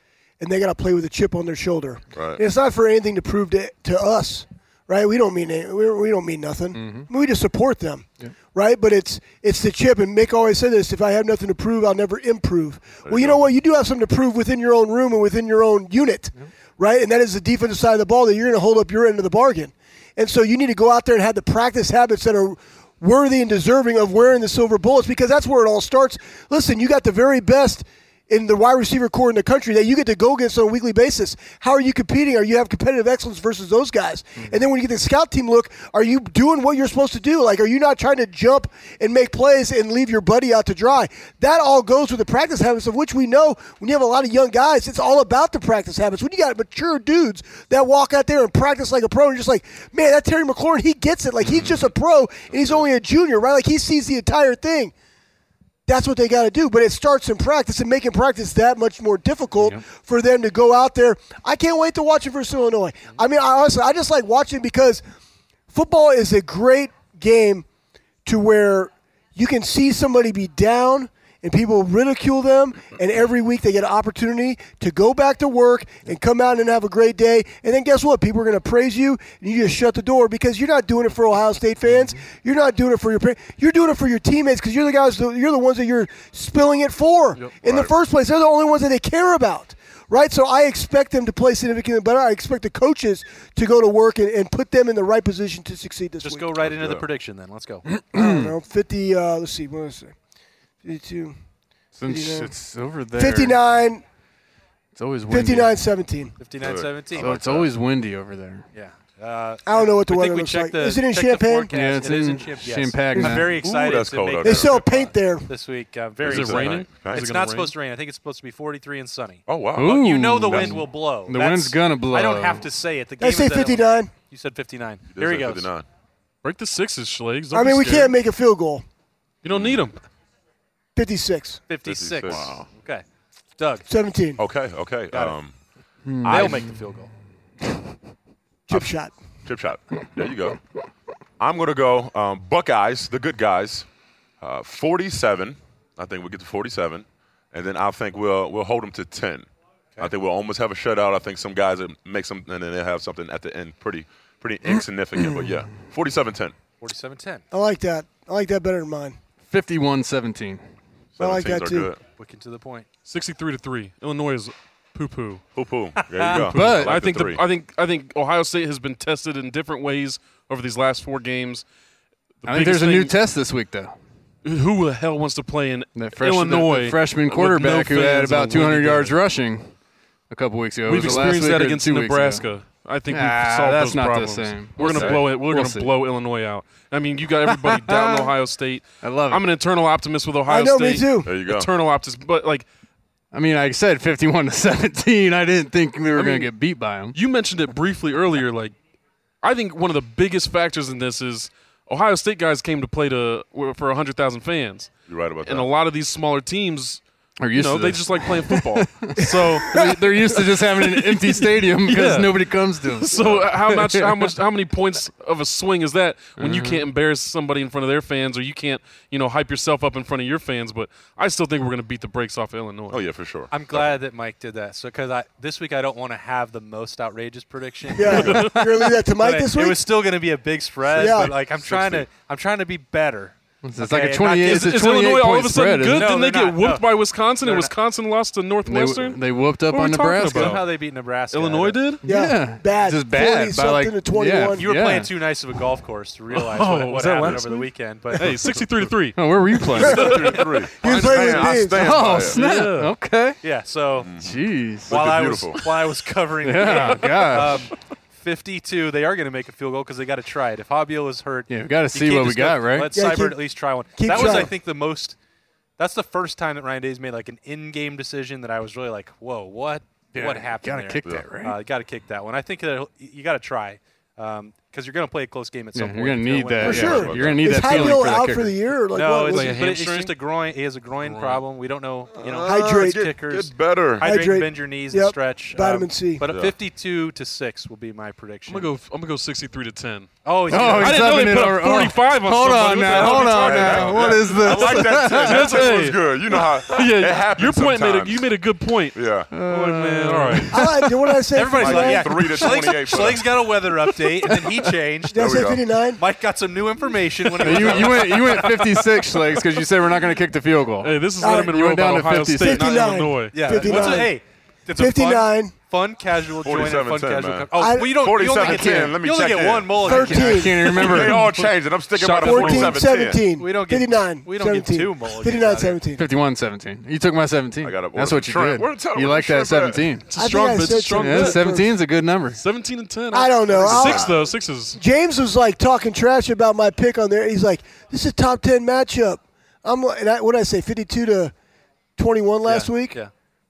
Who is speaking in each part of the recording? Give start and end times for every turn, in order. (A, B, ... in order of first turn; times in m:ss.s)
0:00.4-0:54.9 A
0:02.1-0:02.4 B
0:06.7-0:07.1 C
0:13.0-0:13.4 B
0:34.4-0:34.6 C
0:51.4-0:51.9 B
0:52.5-0:52.8 B
0:55.9-1:05.0 A
1:05.7-1:07.6 A
1:08.2-1:36.5 A
1:27.6-1:27.9 B
1:36.2-1:37.8 D
1:36.6-1:37.0 B
1:38.0-1:38.5 C
1:38.1-1:40.1 A
1:40.8-1:41.4 A
1:42.0-1:43.6 C
1:42.0-1:42.5 A
1:43.2-1:44.0 A
1:44.9-1:45.8 C
1:45.3-1:46.4 A
1:46.4-1:47.3 D
1:46.6-1:47.7 B
1:47.1-1:48.6 C
1:48.7-2:05.7 D
1:49.6-1:51.7 A
1:51.7-1:53.5 C
1:53.6-1:55.1 B
1:54.4-1:55.5 A
1:56.2-1:57.3 B
1:56.2-1:57.7 E
1:59.5-1:59.9 B
1:59.8-2:02.6 C
2:00.4-2:00.8 B
2:03.2-2:04.1 A
2:05.1-2:05.8 B
2:06.4-2:08.2 E
2:07.5-2:08.8 A
2:09.4-2:10.0 E
2:09.5-2:09.8 B
2:11.0-2:11.6 A
2:11.7-2:13.0 D
2:11.8-2:12.7 B
2:13.6-2:13.9 D
2:13.9-2:14.4 A
2:14.4-2:15.6 B
2:15.1-2:15.4 D
2:16.0-2:16.8 C
2:16.2-2:17.1 D
2:16.2-2:16.5 B
2:18.7-2:19.2 A
2:19.4-2:20.6 B
2:21.4-2:29.5 B
2:30.0-2:36.5 B
2:36.8-2:37.4 D
2:37.5-2:39.2 A
2:39.4-2:40.6 C
2:41.2-2:42.0 B
2:41.2-2:41.9 A
2:42.2-2:42.9 D
2:43.1-2:45.4 E
2:45.5-2:47.4 B
2:46.0-2:46.4 D
2:46.3-2:51.6 E
2:46.5-2:47.0 C
2:52.4-2:53.2 E
2:52.5-2:53.9 C
2:54.4-2:59.2 E
2:55.9-2:59.8 C
3:00.3-3:02.5 C
3:00.9-3:12.6 E
3:03.1-3:05.9 C
3:04.8-3:05.2 B
3:07.5-3:08.3 C
3:09.0-3:09.4 C
3:10.5-3:11.3 A
3:11.2-3:11.7 B
3:13.3-3:17.2 C
3:16.1-3:16.5 E
3:17.1-3:18.8 E
3:19.4-3:27.0 E
3:25.1-3:25.7 B
3:27.4-3:34.3 C
3:27.5-3:43.0 E
3:33.2-3:33.5 B
3:36.4-3:36.8 C
3:42.9-3:43.9 B
3:43.5-3:54.7 D
3:47.9-3:49.8 A
3:48.0-3:48.9 E
3:50.9-3:52.0 B
3:51.0-3:51.3 A
3:53.6-3:56.1 C
3:54.4-4:00.7 E
3:55.9-3:56.9 D
3:57.4-3:57.7 D
3:58.6-4:00.6 C
4:00.2-4:01.8 D
4:01.3-4:02.0 E
4:02.0-4:05.1 C
4:02.0-4:04.6 A
4:04.6-4:08.3 D
4:06.3-4:12.9 E
4:09.1-4:10.4 C
4:09.8-4:12.4 B
4:09.9-4:10.2 A
4:10.8-4:12.0 A
4:11.7-4:13.4 C
4:13.4-4:14.1 D
4:14.0-4:15.7 B
4:14.2-4:15.0 C
4:14.9-4:25.2 D
4:16.4-4:17.7 C
4:16.6-4:17.5 E
4:21.5-4:22.9 C
4:22.9-4:24.5 A
4:25.8-4:37.1 D
4:30.1-4:31.6 C
4:35.7-4:38.5 C
4:36.6-4:39.6 A
4:36.8-4:37.9 B
4:38.9-4:48.7 D
4:39.3-4:40.1 E
4:41.0-4:41.4 E
4:42.2-4:44.1 B
4:42.4-4:43.0 A
4:44.0-4:46.2 A
4:46.2-4:46.5 B
4:48.5-5:00.8 E
4:50.2-4:51.1 D
4:50.5-4:55.8 C
4:52.9-4:58.3 B
4:58.9-4:59.3 B
4:59.3-5:00.7 C
5:00.5-5:02.2 A
5:01.3-5:05.4 D
5:01.5-5:03.3 B
5:05.1-5:06.0 A
5:05.1-5:05.7 B
5:06.0-5:08.8 D
5:07.4-5:12.8 C
5:10.8-5:14.0 E
5:11.2-5:11.6 A
5:12.4-5:14.2 A
5:13.3-5:20.6 D
5:14.8-5:15.5 A
5:16.4-5:23.3 B
5:17.6-5:18.0 A
5:18.4-5:19.0 C
5:19.8-5:20.8 A
5:19.8-5:21.5 C
5:21.9-5:22.9 E
5:22.2-5:26.0 A
5:23.4-5:25.8 D
5:26.0-5:30.0 C
5:27.6-5:29.9 B
5:30.1-5:31.6 E
5:30.2-5:31.7 A
5:30.8-5:32.4 C
5:32.4-5:34.8 E
5:33.1-5:41.3 A
5:42.0-5:43.0 A
5:42.4-5:43.1 D